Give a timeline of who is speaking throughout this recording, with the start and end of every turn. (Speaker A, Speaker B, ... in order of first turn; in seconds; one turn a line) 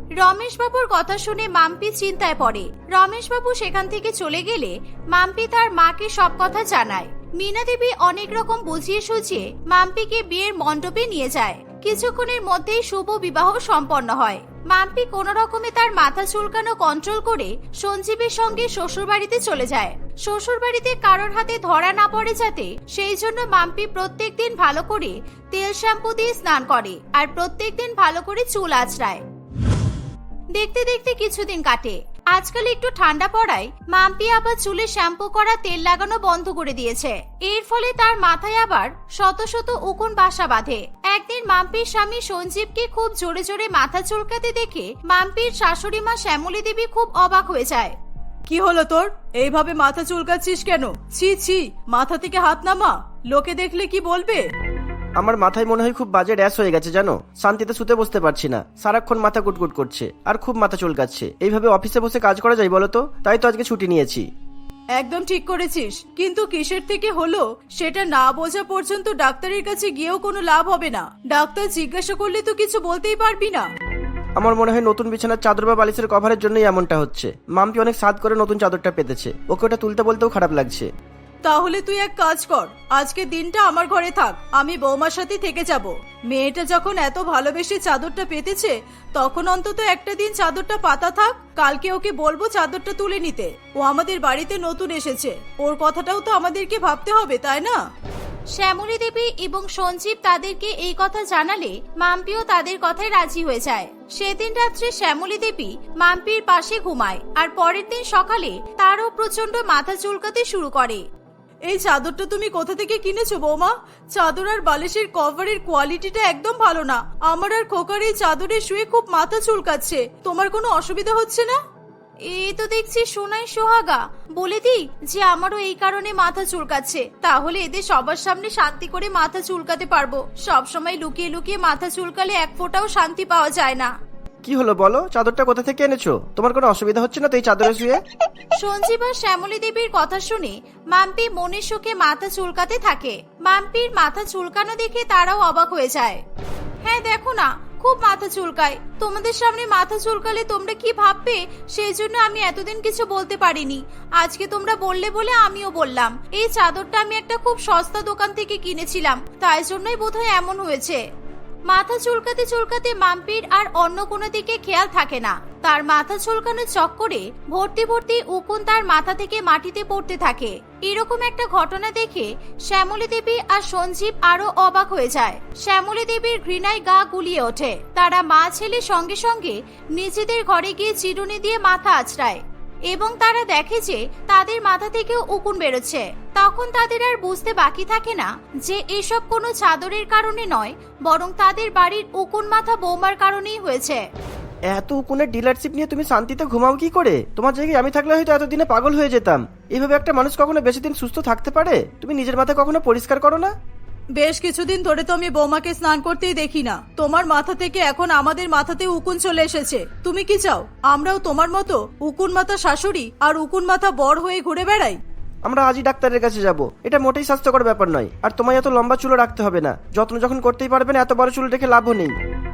Speaker A: 0.2-29.2
Speaker A: 30.5-48.0
Speaker B: 48.5-54.5
Speaker C: 55.2-64.3
Speaker B: 65.0-73.7
Speaker C: 74.4-80.9
Speaker B: 81.4-97.8
Speaker A: 98.5-111.0
Speaker B: 111.7-121.6
Speaker A: 122.2-133.9
Speaker C: 134.4-138.0
Speaker A: 138.6-146.2
Speaker A: 146.8-161.0
Speaker A: 161.7-194.1
Speaker C: 194.7-203.5
Speaker B: 204.2-215.0
Speaker C: 215.5-222.2